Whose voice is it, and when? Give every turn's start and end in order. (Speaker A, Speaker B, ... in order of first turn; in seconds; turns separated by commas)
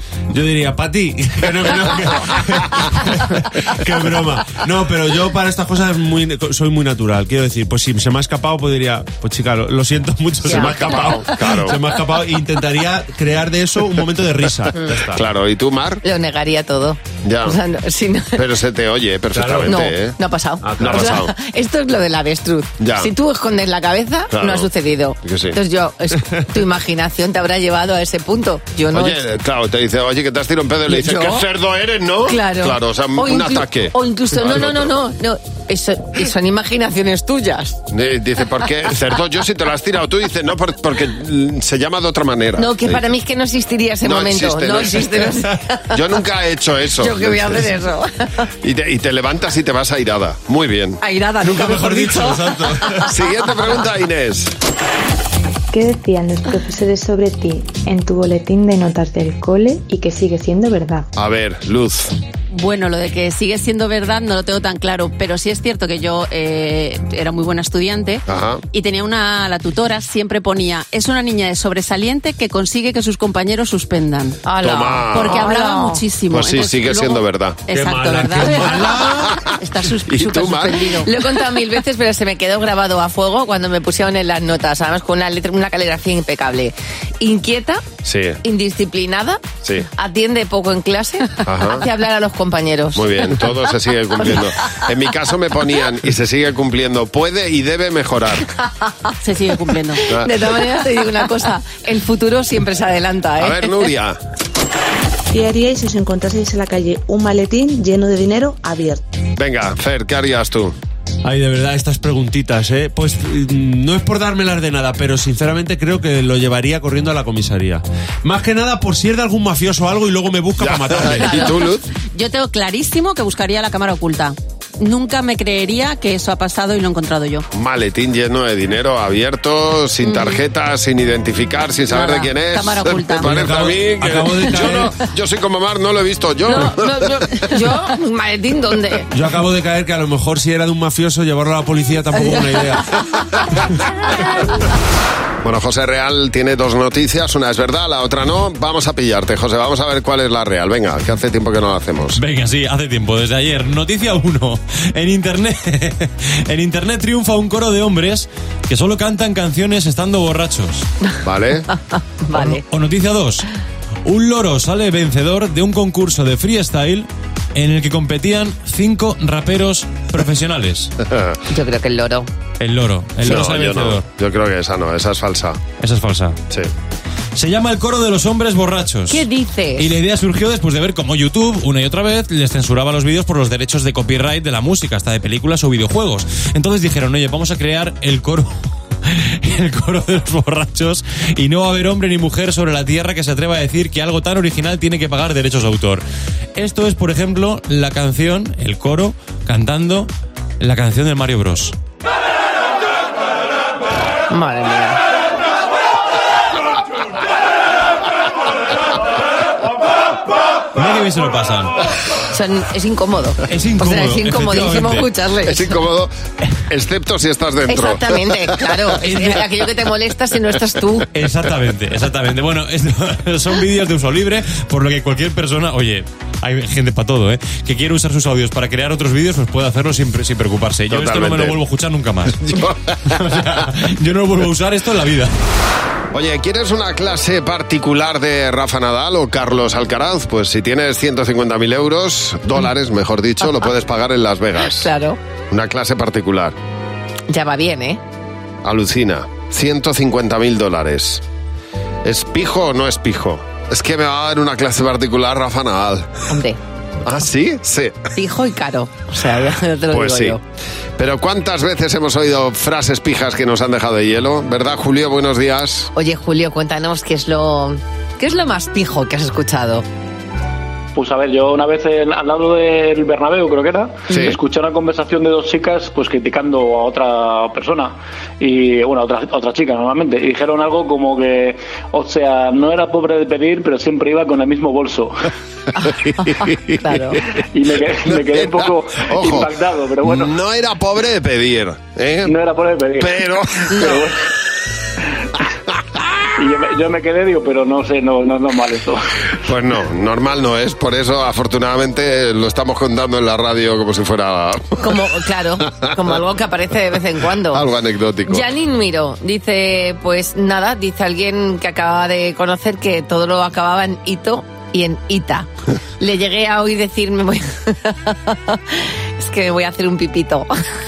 Speaker A: 0.3-15.2, Speaker B: 10.4-11.2, Speaker C: 10.5-11.8, Speaker C: 15.1-16.0, Speaker B: 16.0-18.4, Speaker C: 17.2-17.6, Speaker C: 18.4-20.2, Speaker A: 19.3-19.8, Speaker B: 19.6-29.2, Speaker A: 20.6-21.2, Speaker C: 20.8-21.3, Speaker C: 22.8-23.1, Speaker C: 24.3-24.7, Speaker C: 25.2-25.6, Speaker C: 28.9-35.0, Speaker B: 30.9-31.4, Speaker B: 32.2-37.8, Speaker C: 37.9-43.0, Speaker B: 42.6-45.9, Speaker C: 44.0-47.7, Speaker B: 47.0-48.3, Speaker C: 48.6-51.0, Speaker B: 51.0-53.0, Speaker A: 51.4-53.1, Speaker C: 53.1-54.5, Speaker D: 55.7-61.0, Speaker C: 61.1-62.1, Speaker E: 62.5-74.4, Speaker C: 68.3-68.6, Speaker B: 74.4-76.0, Speaker C: 74.6-75.5, Speaker E: 75.1-81.1, Speaker C: 76.3-77.8, Speaker A: 77.7-79.3, Speaker C: 78.4-80.9, Speaker B: 81.0-87.8, Speaker C: 88.0-88.4, Speaker B: 88.4-89.4, Speaker B: 89.9-93.4, Speaker C: 91.4-91.8, Speaker C: 92.9-98.5, Speaker E: 99.2-100.0, Speaker B: 100.2-103.7, Speaker C: 103.4-104.2, Speaker F: 105.3-109.0, Speaker C: 109.4-110.7, Speaker A: 111.2-121.5, Speaker C: 120.6-121.8, Speaker E: 122.0-127.4, Speaker C: 127.5-137.3, Speaker B: 130.0-130.4, Speaker E: 131.9-133.3, Speaker A: 133.2-134.9, Speaker B: 136.5-139.1, Speaker A: 139.1-142.9, Speaker B: 142.2-142.6, Speaker C: 145.4-152.2, Speaker G: 152.2-160.9, Speaker C: 161.2-161.7, Speaker B: 161.7-162.6, Speaker G: 162.3-163.5, Speaker G: 164.0-170.9, Speaker C: 171.1-171.4, Speaker B: 171.5-172.3, Speaker G: 172.6-174.0, Speaker C: 173.2-175.6, Speaker G: 175.8-176.4, Speaker G: 177.3-179.2, Speaker B: 179.1-179.9, Speaker G: 179.8-196.0, Speaker G: 196.5-201.7, Speaker B: 204.3-205.0, Speaker G: 210.7-211.8, Speaker B: 212.3-215.8, Speaker G: 213.5-215.1, Speaker C: 215.4-216.1, Speaker C: 216.7-218.9, Speaker B: 217.7-221.1, Speaker G: 221.1-232.6, Speaker C: 230.9-231.6, Speaker C: 232.4-233.4, Speaker G: 233.1-235.3, Speaker C: 236.1-244.9, Speaker B: 244.7-245.2, Speaker C: 245.5-246.6, Speaker B: 247.3-248.0, Speaker C: 248.6-251.2, Speaker C: 252.0-256.1, Speaker B: 256.3-256.6, Speaker C: 257.0-258.0, Speaker B: 258.1-260.4, Speaker C: 259.9-260.4, Speaker C: 261.0-265.9, Speaker B: 265.9-269.8, Speaker H: 270.9-285.1, Speaker B: 274.1-274.3, Speaker C: 274.1-274.4, Speaker B: 285.8-287.2, Speaker H: 287.5-290.3, Speaker C: 288.3-289.5, Speaker C: 290.0-292.3, Speaker H: 292.2-293.2, Speaker C: 293.0-294.0, Speaker H: 293.8-294.1, Speaker H: 296.4-299.0, Speaker C: 299.4-304.8, Speaker B: 304.8-307.6, Speaker C: 307.5-308.4, Speaker B: 308.3-315.5, Speaker B: 316.0-320.5